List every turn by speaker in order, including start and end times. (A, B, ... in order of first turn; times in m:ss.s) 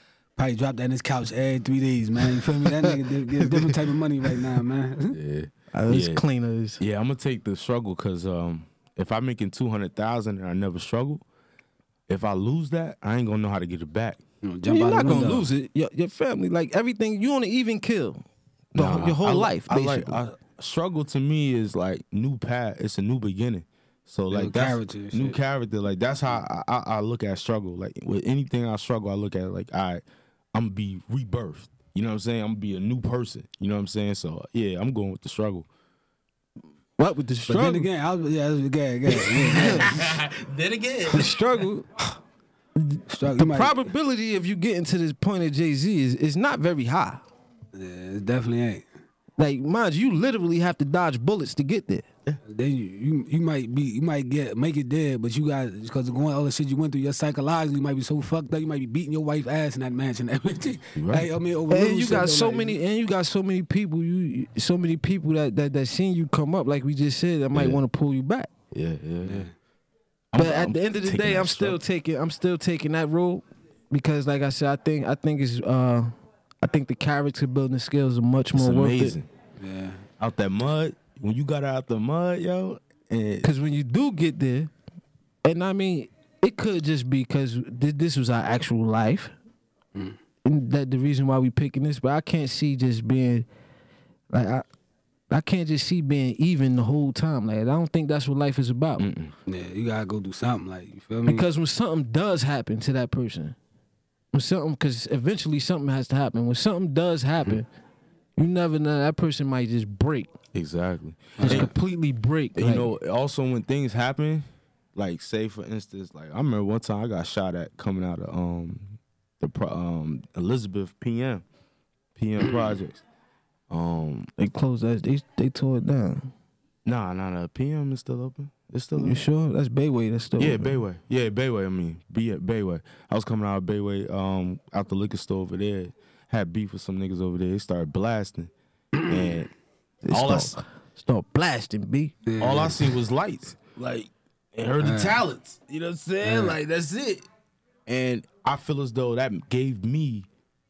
0:00.4-0:05.2 A
0:03.4-0:03.7 B
0:05.1-0:06.2 C
0:05.7-0:06.8 B
0:06.8-0:11.2 C
0:12.1-0:14.2 C
0:14.4-0:15.5 A
0:14.7-0:20.2 B
0:18.7-0:35.7 C
0:24.3-0:25.4 A
0:37.0-0:37.9 B
0:37.5-0:40.0 A
0:39.3-0:41.3 C
0:39.5-0:39.9 B
0:41.1-0:42.2 B
0:42.8-0:47.2 B
0:43.1-0:43.8 A
0:47.7-0:48.8 A
0:49.4-0:52.0 B
0:52.4-1:02.8 A
1:01.0-1:01.3 C
1:01.7-1:08.5 B
1:07.5-1:07.8 C
1:08.7-1:09.5 C
1:09.2-1:09.5 A
1:10.3-1:11.8 C
1:10.4-1:16.1 B
1:16.6-1:19.2 B
1:18.5-1:19.3 C
1:19.6-1:20.0 A
1:20.2-1:23.5 C
1:23.4-1:24.7 B
1:25.4-1:29.3 B
1:30.4-1:33.5 B
1:34.3-1:34.6 B
1:35.3-1:39.1 B
1:39.0-1:39.3 C
1:39.5-1:41.4 A
1:41.2-1:43.6 B
1:44.3-1:47.7 B
1:48.4-1:50.3 B
1:50.5-1:51.7 C
1:51.4-1:51.7 A
1:51.4-1:52.9 B
1:52.6-2:01.4 C
2:02.2-2:03.0 C
2:03.7-2:04.3 C
2:04.4-2:06.3 B
2:06.8-2:09.2 C
2:09.0-2:10.8 B
2:10.4-2:18.5 C
2:19.0-2:19.4 A
2:19.0-2:19.5 C
2:20.0-2:22.2 B
2:20.1-2:20.6 C
2:22.2-2:22.8 A
2:22.4-2:27.2 C
2:24.8-2:25.2 A
2:26.2-2:26.6 A
2:27.9-2:30.3 C